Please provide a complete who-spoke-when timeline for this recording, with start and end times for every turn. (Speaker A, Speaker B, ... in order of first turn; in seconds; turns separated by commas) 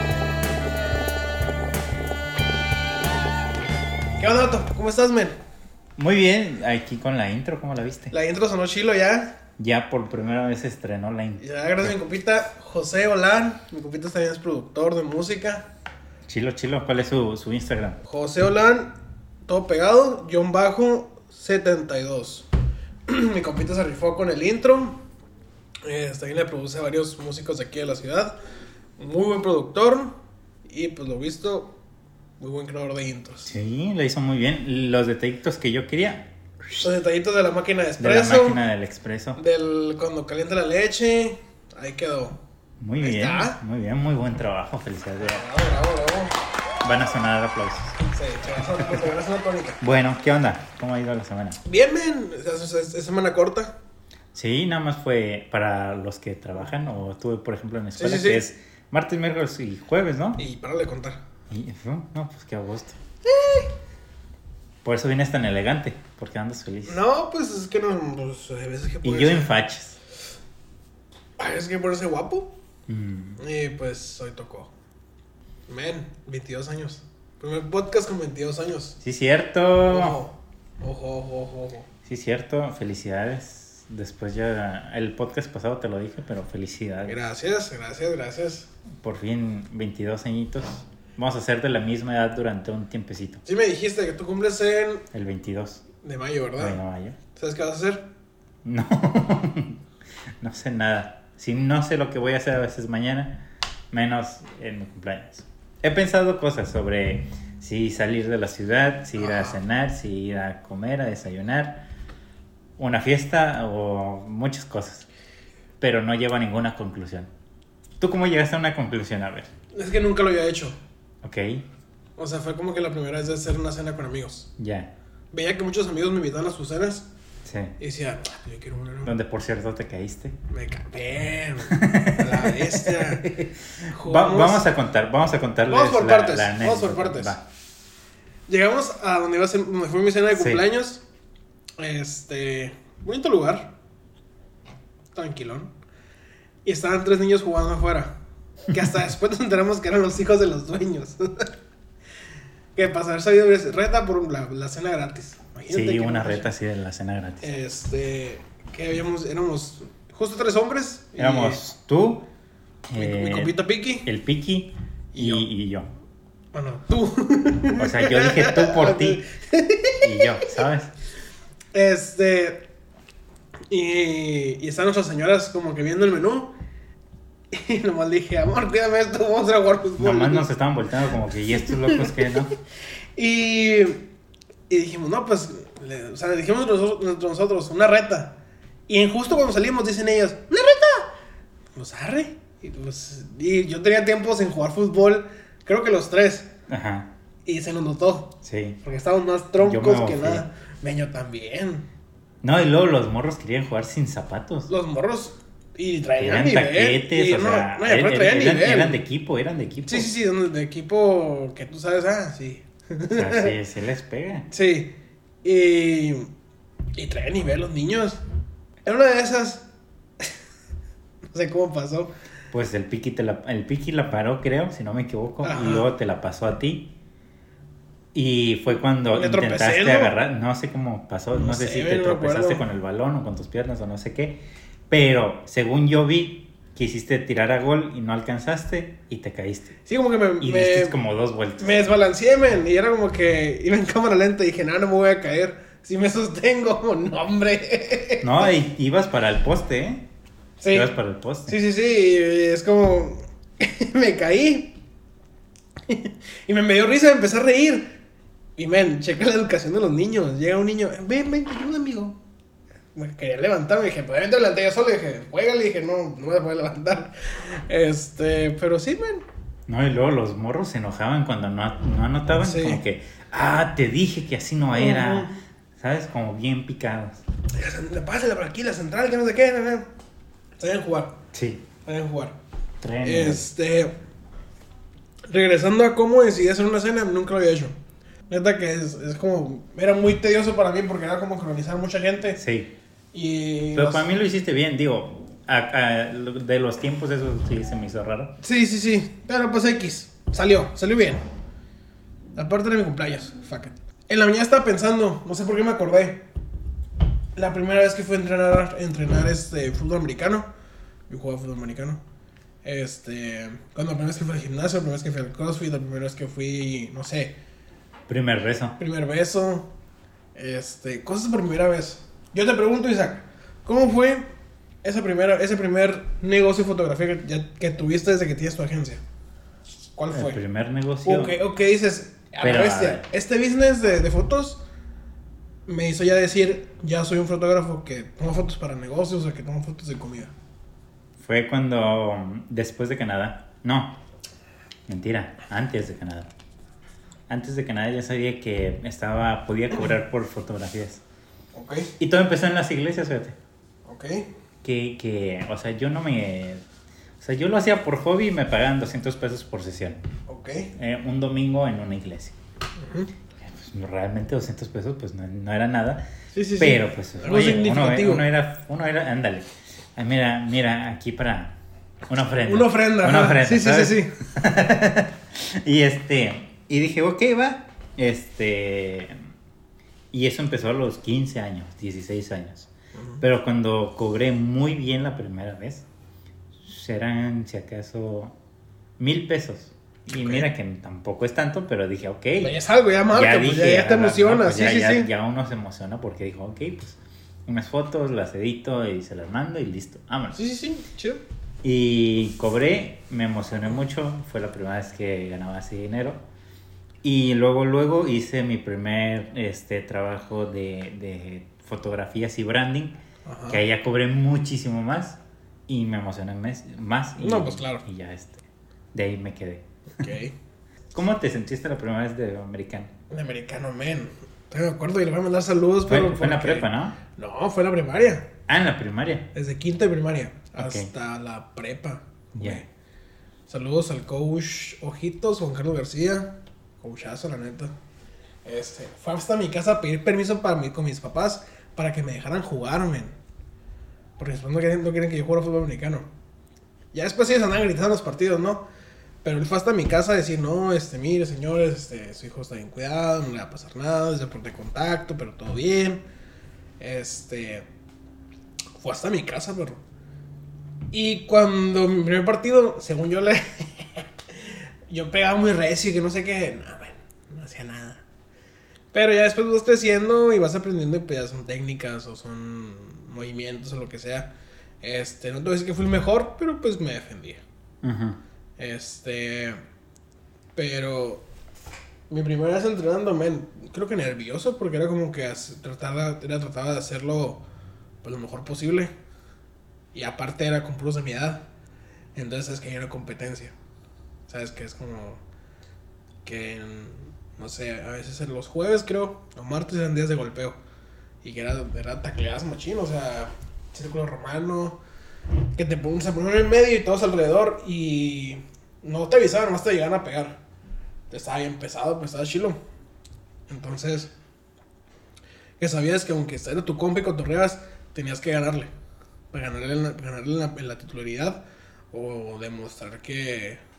Speaker A: 4.2-5.4, Speaker B: 6.0-8.1, Speaker A: 8.1-9.4, Speaker B: 9.6-11.9, Speaker A: 11.4-15.7, Speaker B: 16.3-18.0, Speaker A: 18.1-18.9, Speaker A: 19.5-22.5, Speaker A: 23.1-25.0, Speaker A: 25.9-28.3, Speaker A: 29.0-31.8, Speaker A: 32.4-33.5, Speaker B: 33.5-36.3, Speaker A: 36.8-38.6, Speaker B: 38.0-39.4, Speaker A: 39.4-42.4, Speaker B: 42.8-45.5, Speaker A: 43.0-43.6, Speaker A: 45.2-46.3, Speaker B: 46.8-48.0, Speaker A: 48.1-49.8, Speaker B: 49.8-51.6, Speaker A: 51.6-53.7, Speaker B: 54.4-60.4, Speaker A: 58.0-58.5, Speaker A: 60.4-61.2, Speaker B: 61.5-63.0, Speaker A: 63.3-63.7, Speaker B: 64.8-67.0, Speaker A: 66.9-69.5, Speaker B: 69.0-70.0, Speaker A: 71.4-72.5, Speaker B: 72.9-73.4, Speaker A: 73.4-74.7, Speaker A: 75.7-79.0, Speaker B: 79.0-80.2, Speaker A: 79.9-81.9, Speaker B: 82.1-87.2, Speaker A: 87.0-88.7, Speaker B: 89.0-93.4, Speaker A: 93.5-95.0, Speaker B: 95.1-95.8, Speaker A: 96.0-96.8, Speaker B: 96.6-97.2, Speaker A: 97.3-98.1, Speaker B: 98.6-99.8, Speaker B: 100.4-111.9, Speaker A: 109.2-109.6, Speaker B: 112.8-115.1, Speaker B: 115.8-117.3, Speaker B: 118.0-119.5, Speaker A: 119.7-120.8, Speaker B: 121.2-121.6, Speaker A: 122.2-124.5, Speaker B: 124.6-124.9, Speaker A: 125.3-127.1, Speaker B: 127.5-127.8, Speaker A: 127.8-129.1, Speaker B: 129.1-130.3, Speaker A: 130.5-133.3, Speaker B: 131.7-137.4, Speaker A: 133.9-134.7, Speaker A: 135.7-137.3, Speaker A: 138.5-141.0, Speaker B: 140.3-140.6, Speaker A: 141.8-143.7, Speaker A: 145.1-145.7, Speaker A: 146.7-148.2, Speaker A: 148.7-151.5, Speaker A: 152.8-156.5, Speaker B: 155.7-157.5, Speaker A: 157.4-161.6, Speaker B: 161.2-162.2, Speaker B: 162.9-165.9, Speaker A: 162.9-164.1, Speaker A: 165.1-165.5, Speaker A: 166.5-170.6, Speaker B: 167.8-169.2, Speaker B: 170.0-170.9, Speaker A: 171.7-172.6, Speaker A: 173.7-176.5, Speaker A: 177.5-180.5, Speaker B: 180.0-182.5, Speaker A: 181.7-182.1, Speaker A: 183.2-184.1, Speaker A: 184.7-188.4, Speaker A: 188.9-191.1, Speaker A: 191.8-196.5, Speaker B: 196.7-197.1, Speaker A: 197.4-201.9, Speaker B: 198.4-198.8, Speaker B: 199.6-200.4, Speaker B: 202.4-204.7, Speaker A: 204.7-209.0, Speaker B: 206.2-210.1, Speaker A: 209.9-213.5, Speaker B: 213.1-214.5, Speaker A: 214.5-216.3, Speaker A: 216.9-218.2, Speaker A: 218.8-219.7, Speaker A: 221.3-222.1, Speaker B: 222.5-226.9, Speaker A: 225.4-225.9, Speaker B: 228.1-239.8, Speaker A: 229.1-230.2, Speaker A: 231.3-232.7, Speaker A: 239.8-240.9, Speaker B: 240.4-241.8, Speaker A: 241.6-248.3, Speaker B: 248.2-250.1, Speaker A: 250.6-250.9, Speaker B: 250.7-251.5, Speaker A: 251.5-254.8, Speaker A: 255.9-257.9, Speaker A: 258.6-262.2, Speaker A: 262.9-269.3, Speaker B: 269.7-277.2, Speaker A: 272.4-272.8, Speaker A: 274.8-275.4, Speaker A: 277.5-279.9, Speaker A: 280.6-281.1, Speaker B: 281.3-281.6, Speaker A: 281.9-282.4, Speaker B: 282.8-283.5, Speaker A: 283.0-283.9, Speaker A: 285.3-287.8, Speaker A: 288.3-292.4, Speaker B: 292.4-292.7, Speaker A: 293.1-294.1, Speaker B: 293.7-298.3, Speaker A: 298.4-301.2, Speaker A: 302.4-306.2, Speaker A: 307.4-310.5, Speaker A: 311.1-312.0, Speaker A: 312.6-317.4, Speaker B: 318.1-318.8, Speaker A: 318.8-319.7, Speaker A: 320.4-324.2, Speaker A: 324.8-329.0, Speaker A: 330.0-330.4, Speaker B: 330.1-331.4, Speaker A: 331.1-334.6, Speaker B: 332.4-333.1, Speaker A: 335.7-340.3, Speaker B: 341.2-344.0, Speaker B: 344.9-346.3, Speaker B: 347.3-351.0, Speaker A: 351.5-351.9, Speaker B: 352.0-353.4, Speaker A: 353.9-354.3, Speaker B: 354.6-356.6, Speaker B: 357.2-360.0, Speaker A: 360.3-360.7, Speaker B: 360.8-362.4, Speaker A: 362.8-363.1, Speaker B: 363.4-366.1, Speaker A: 366.3-368.3, Speaker B: 366.6-371.6, Speaker B: 372.1-379.1, Speaker A: 372.5-374.1, Speaker B: 380.1-382.7, Speaker B: 383.2-385.9, Speaker B: 386.6-388.4, Speaker B: 389.0-392.5, Speaker A: 390.2-390.5, Speaker A: 392.4-395.1, Speaker B: 393.1-400.4, Speaker A: 400.4-401.2, Speaker B: 401.6-406.2, Speaker B: 407.0-413.0, Speaker A: 413.2-413.6, Speaker B: 413.5-419.6, Speaker A: 417.2-417.8, Speaker A: 420.0-420.3, Speaker B: 420.9-422.9, Speaker A: 423.1-428.3, Speaker B: 425.9-427.0, Speaker B: 428.5-429.3, Speaker A: 429.3-432.7, Speaker B: 430.6-430.9, Speaker B: 432.4-432.6, Speaker A: 433.5-437.7, Speaker A: 438.4-443.1, Speaker A: 444.2-446.1, Speaker A: 446.9-448.6, Speaker A: 449.2-456.0, Speaker A: 456.8-457.6, Speaker A: 458.8-459.8, Speaker A: 460.9-464.1, Speaker A: 464.9-468.0, Speaker A: 468.9-474.3, Speaker A: 474.8-477.4, Speaker B: 477.8-478.2, Speaker A: 478.6-479.6, Speaker A: 480.6-481.2, Speaker A: 482.1-487.4, Speaker A: 488.0-488.9, Speaker A: 489.9-491.4, Speaker A: 492.1-493.5, Speaker A: 494.3-495.2, Speaker A: 496.2-500.6, Speaker A: 501.2-504.8, Speaker A: 505.6-510.4, Speaker A: 511.1-512.6, Speaker A: 513.5-514.1, Speaker A: 515.6-518.7, Speaker A: 519.3-521.4, Speaker A: 521.9-523.6